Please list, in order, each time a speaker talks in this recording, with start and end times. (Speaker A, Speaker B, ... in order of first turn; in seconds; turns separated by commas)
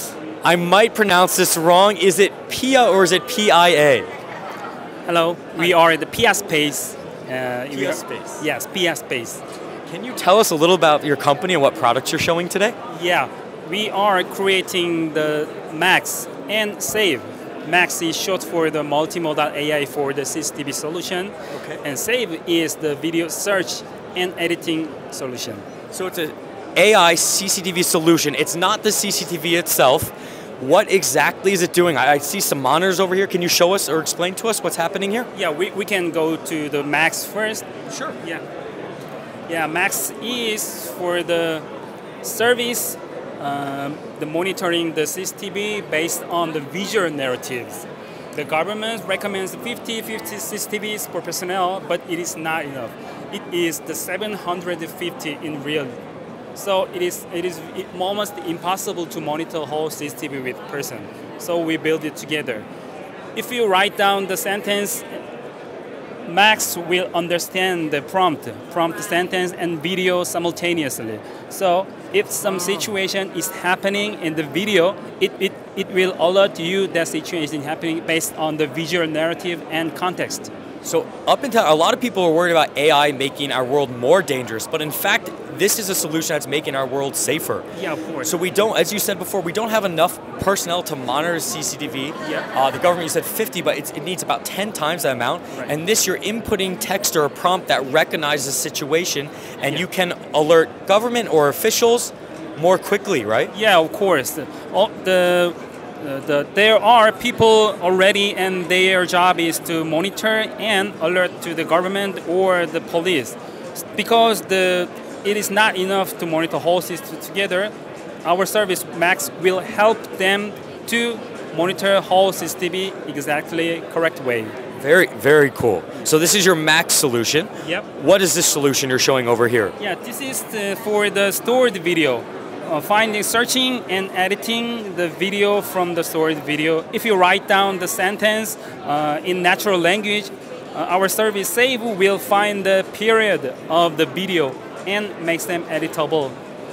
Speaker A: 0.4-4.1, Speaker B: 5.1-9.4, Speaker A: 7.7-8.4, Speaker A: 9.8-12.7, Speaker B: 12.9-25.6, Speaker A: 21.5-21.8, Speaker A: 25.9-35.3, Speaker B: 35.3-37.7, Speaker A: 37.9-38.2, Speaker B: 39.5-41.7, Speaker B: 42.2-55.9, Speaker B: 56.5-62.6, Speaker B: 63.3-65.1, Speaker B: 66.2-80.5, Speaker A: 80.8-87.7, Speaker B: 87.7-88.3, Speaker A: 88.2-103.5, Speaker B: 103.5-117.7, Speaker B: 118.2-124.5, Speaker A: 124.8-129.7, Speaker B: 127.6-127.9, Speaker B: 129.8-146.3